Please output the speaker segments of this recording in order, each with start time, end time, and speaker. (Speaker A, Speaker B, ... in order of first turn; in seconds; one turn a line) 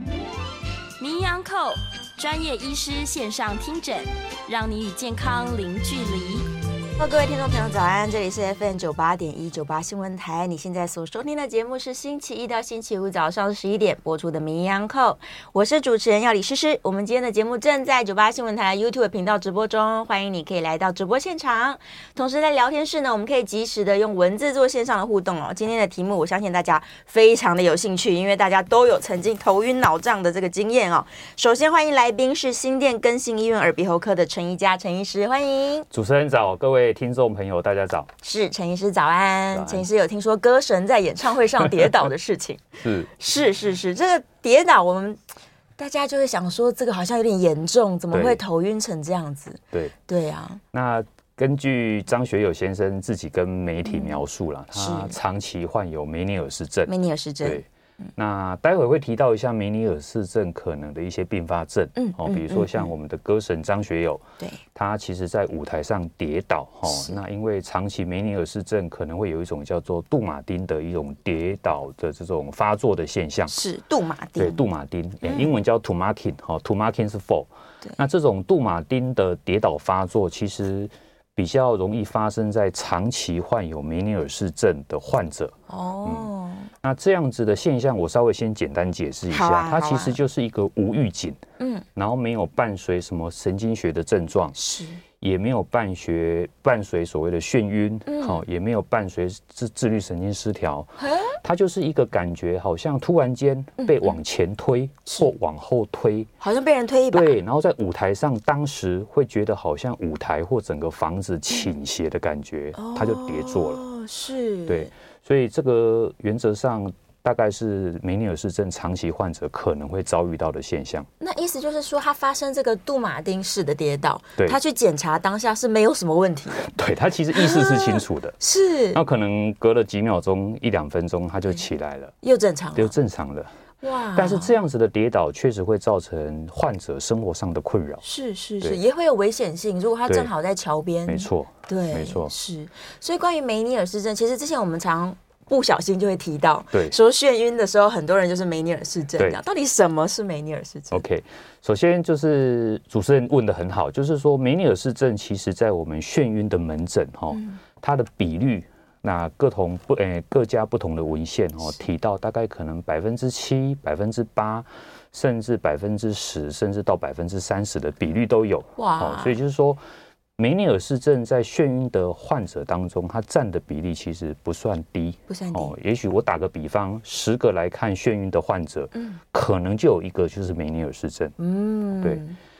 Speaker A: 1.0-6.5
Speaker B: 7.0-35.9
Speaker C: 35.9-38.1
Speaker B: 38.2-45.2
Speaker C: 39.5-39.9
Speaker C: 41.6-42.0
Speaker C: 42.8-43.1
Speaker B: 45.8-50.6
Speaker C: 48.1-48.4
Speaker C: 50.7-56.9
Speaker B: 53.9-54.2
Speaker B: 54.7-55.2
Speaker B: 56.9-58.1
Speaker C: 57.4-73.6
Speaker B: 62.0-62.9
Speaker B: 66.9-67.2
Speaker B: 73.5-74.6
Speaker C: 74.4-86.3
Speaker B: 75.2-75.5
Speaker B: 85.7-86.7
Speaker C: 86.8-91.4
Speaker B: 89.3-90.2
Speaker B: 91.6-91.8
Speaker C: 91.9-94.6
Speaker B: 94.5-95.0
Speaker C: 95.2-106.3
Speaker B: 98.1-98.4
Speaker B: 101.0-101.4
Speaker B: 103.8-104.2
Speaker B: 106.4-107.4
Speaker C: 107.1-113.8
Speaker B: 112.7-114.9
Speaker C: 114.7-121.1
Speaker B: 121.2-126.7
Speaker C: 126.6-128.3
Speaker B: 127.3-129.0
Speaker C: 128.9-132.1
Speaker B: 132.2-132.9
Speaker C: 132.8-133.5
Speaker B: 133.8-134.5
Speaker C: 134.1-138.0
Speaker B: 138.0-151.0
Speaker C: 141.1-142.3
Speaker C: 146.7-147.0
Speaker C: 150.9-169.8
Speaker B: 157.3-157.6
Speaker B: 168.8-169.3
Speaker C: 170.4-181.3
Speaker B: 175.3-175.7
Speaker B: 178.9-179.2
Speaker B: 181.4-182.4